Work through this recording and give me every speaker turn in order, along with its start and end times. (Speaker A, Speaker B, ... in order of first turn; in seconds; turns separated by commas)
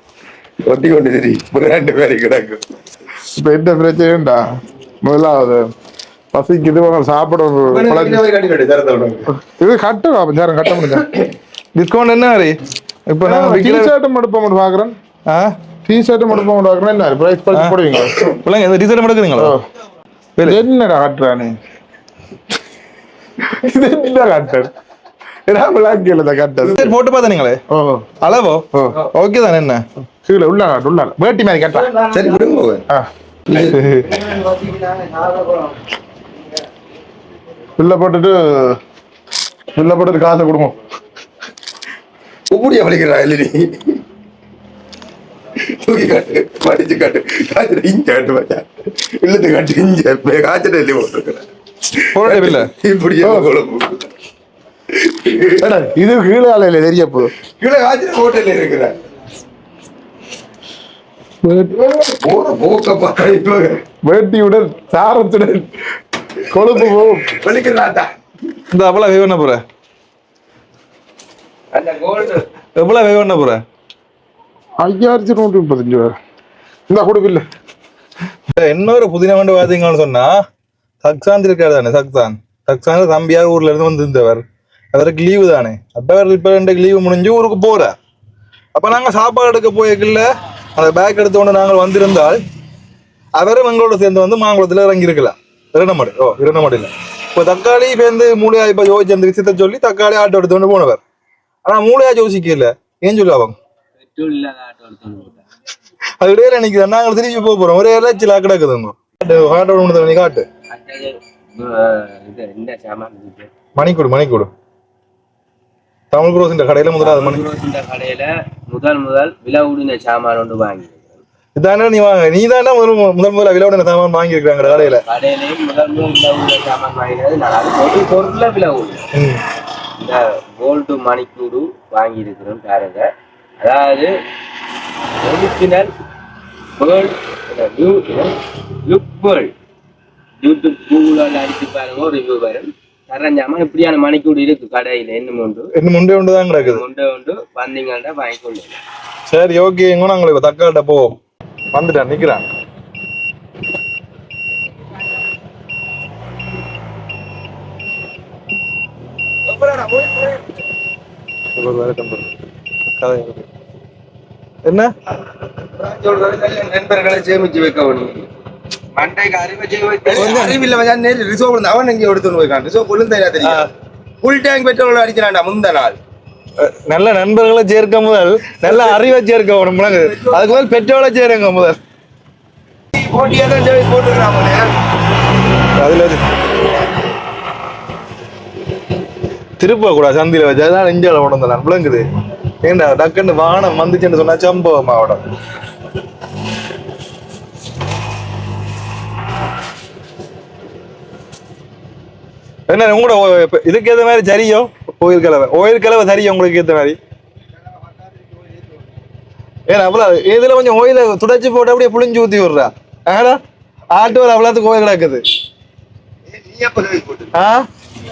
Speaker A: 0.6-2.6, Speaker B: 3.4-4.4, Speaker B: 5.0-5.6, Speaker B: 6.3-8.2, Speaker A: 7.7-9.3, Speaker B: 9.4-11.1, Speaker A: 10.9-11.3, Speaker C: 11.8-12.6, Speaker C: 13.1-13.9, Speaker B: 13.2-14.9, Speaker C: 15.3-15.6, Speaker B: 15.9-18.2, Speaker C: 17.5-19.6, Speaker C: 20.4-20.6, Speaker B: 20.4-21.6, Speaker B: 23.5-24.7, Speaker B: 25.5-26.9, Speaker C: 26.7-27.6, Speaker B: 27.7-28.1, Speaker C: 28.2-29.8, Speaker B: 30.2-31.9, Speaker A: 31.9-32.9, Speaker A: 33.5-35.7, Speaker C: 33.5-34.1, Speaker B: 37.8-38.8, Speaker B: 39.8-40.8, Speaker A: 42.5-44.0, Speaker A: 45.6-54.1, Speaker C: 52.1-52.7, Speaker B: 53.2-53.5, Speaker A: 55.0-55.7, Speaker B: 55.6-57.3, Speaker A: 57.6-59.0, Speaker B: 61.4-62.0, Speaker A: 62.2-63.8, Speaker B: 64.0-65.7, Speaker B: 66.5-67.4, Speaker A: 66.6-68.1, Speaker C: 68.7-69.6, Speaker D: 71.7-72.5, Speaker C: 72.8-73.6, Speaker B: 74.8-76.2, Speaker B: 76.9-77.4, Speaker C: 78.5-80.3, Speaker C: 81.0-88.0, Speaker C: 88.8-92.4, Speaker C: 93.4-101.0, Speaker C: 101.7-103.5, Speaker D: 104.0-105.5, Speaker C: 106.2-110.5, Speaker D: 110.7-113.5, Speaker C: 113.8-114.5, Speaker C: 116.1-117.5, Speaker D: 117.0-121.2, Speaker C: 121.6-125.0, Speaker D: 124.6-129.1, Speaker C: 129.1-129.4, Speaker D: 130.0-133.1, Speaker D: 133.6-134.1, Speaker D: 135.2-135.9, Speaker D: 136.8-139.5, Speaker D: 140.4-145.7, Speaker C: 145.8-146.8, Speaker D: 146.5-148.8, Speaker C: 149.3-151.2, Speaker C: 151.7-152.4, Speaker C: 161.6-162.3, Speaker C: 163.0-163.5, Speaker C: 164.6-164.9, Speaker D: 165.8-168.3, Speaker D: 168.9-170.4, Speaker A: 170.1-173.7, Speaker C: 170.2-170.6, Speaker C: 173.4-173.7, Speaker A: 174.2-176.0, Speaker C: 176.6-181.8, Speaker A: 178.7-179.0, Speaker A: 179.9-180.6, Speaker A: 182.9-184.8, Speaker C: 185.8-186.2, Speaker C: 189.6-192.0, Speaker C: 192.6-195.2, Speaker C: 202.7-207.0, Speaker A: 207.8-208.9, Speaker C: 209.7-213.4, Speaker C: 213.9-215.2, Speaker A: 216.3-217.3, Speaker C: 217.3-217.7